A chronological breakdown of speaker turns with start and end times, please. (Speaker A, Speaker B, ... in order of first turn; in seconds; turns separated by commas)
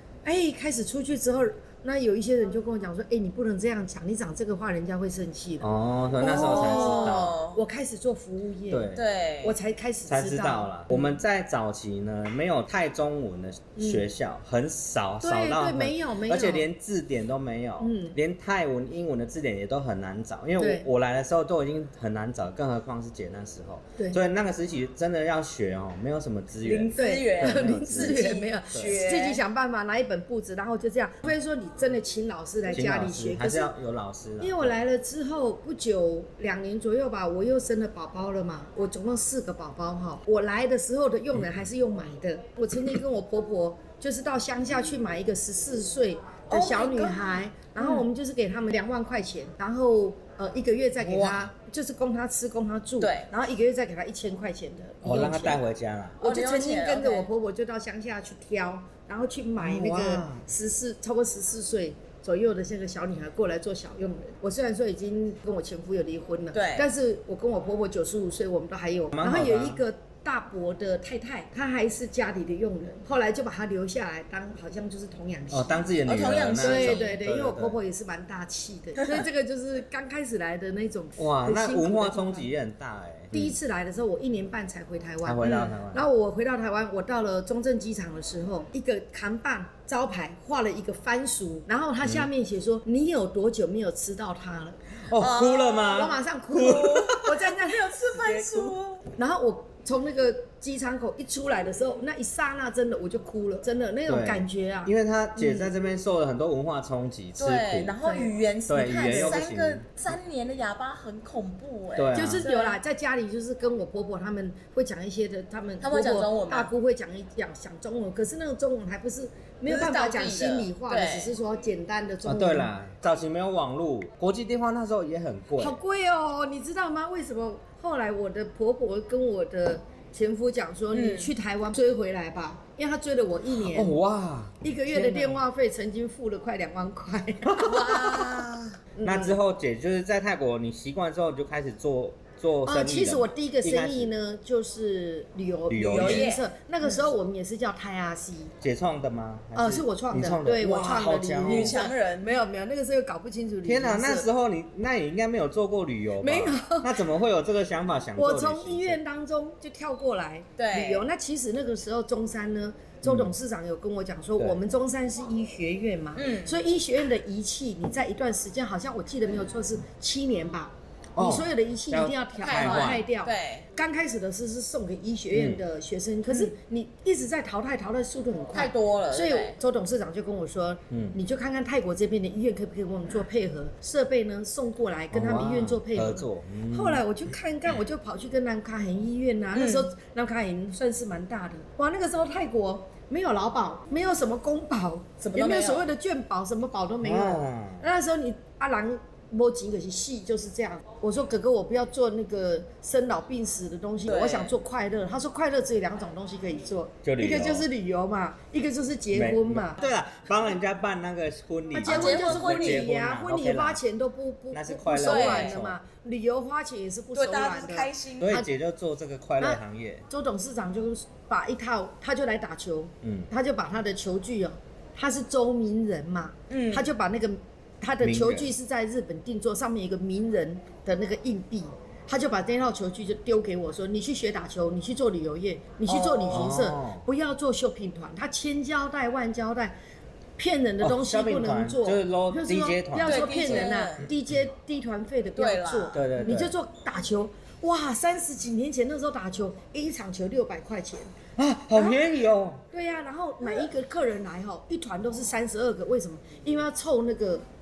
Speaker A: 0.2-8.9, Speaker B: 5.6-7.4, Speaker C: 6.2-7.6, Speaker B: 8.7-9.0, Speaker C: 8.9-9.6, Speaker A: 9.4-11.2, Speaker B: 10.1-29.0, Speaker A: 13.8-14.1, Speaker A: 15.2-16.7, Speaker A: 17.8-18.2, Speaker A: 20.6-20.9, Speaker C: 26.6-29.4, Speaker A: 26.9-33.7, Speaker B: 32.7-34.7, Speaker A: 34.4-55.6, Speaker C: 46.5-48.1, Speaker B: 51.0-51.5, Speaker C: 53.0-53.3, Speaker B: 55.0-56.2, Speaker C: 56.2-57.3, Speaker A: 56.2-76.0, Speaker B: 59.6-60.5, Speaker C: 66.5-66.9, Speaker B: 69.1-69.8, Speaker B: 75.5-77.8, Speaker C: 76.0-77.1, Speaker A: 76.6-82.5, Speaker B: 81.2-83.6, Speaker A: 83.3-94.8, Speaker B: 85.2-86.0, Speaker C: 85.4-85.8, Speaker B: 92.0-92.3, Speaker B: 95.1-97.3, Speaker C: 95.2-99.0, Speaker A: 95.7-97.9, Speaker B: 98.1-98.8, Speaker A: 99.2-105.6, Speaker B: 104.1-107.9, Speaker C: 107.4-112.8, Speaker A: 108.0-108.3, Speaker B: 108.7-109.8, Speaker A: 109.0-109.4, Speaker B: 112.0-112.5, Speaker A: 112.2-122.7, Speaker C: 115.8-116.7, Speaker C: 119.7-121.3, Speaker B: 122.2-125.8, Speaker A: 125.6-134.0, Speaker C: 130.9-131.3, Speaker B: 133.7-135.4, Speaker A: 134.6-138.2, Speaker B: 137.4-144.1, Speaker C: 137.7-138.6, Speaker A: 139.0-139.4, Speaker A: 142.6-148.5, Speaker B: 145.7-146.3, Speaker C: 145.9-146.5, Speaker B: 148.6-151.8, Speaker A: 149.6-154.3, Speaker C: 151.4-152.3, Speaker B: 153.6-159.0, Speaker A: 156.2-157.0, Speaker A: 158.2-209.8, Speaker C: 160.6-161.1, Speaker B: 163.0-163.3, Speaker C: 166.2-166.6, Speaker B: 171.2-173.1, Speaker C: 172.4-173.7, Speaker B: 175.3-175.6, Speaker C: 176.3-176.5, Speaker C: 178.5-179.6, Speaker B: 180.9-181.2, Speaker B: 185.1-187.0, Speaker C: 189.5-189.9, Speaker C: 195.3-195.9, Speaker B: 197.0-197.9, Speaker C: 204.1-204.6, Speaker B: 207.0-207.7, Speaker B: 209.1-213.8, Speaker A: 211.7-218.5, Speaker C: 211.8-212.9, Speaker B: 214.5-215.8, Speaker C: 215.0-215.6, Speaker C: 217.2-218.4, Speaker B: 218.2-220.1, Speaker A: 219.4-239.8, Speaker B: 223.0-223.3, Speaker C: 226.5-226.9, Speaker B: 228.0-228.5, Speaker C: 235.9-236.4, Speaker B: 236.3-237.1, Speaker A: 240.4-251.2, Speaker B: 240.8-243.7, Speaker C: 243.0-244.1, Speaker C: 245.4-246.0, Speaker B: 245.9-246.5, Speaker B: 251.4-252.6, Speaker A: 251.7-252.0, Speaker A: 252.7-257.4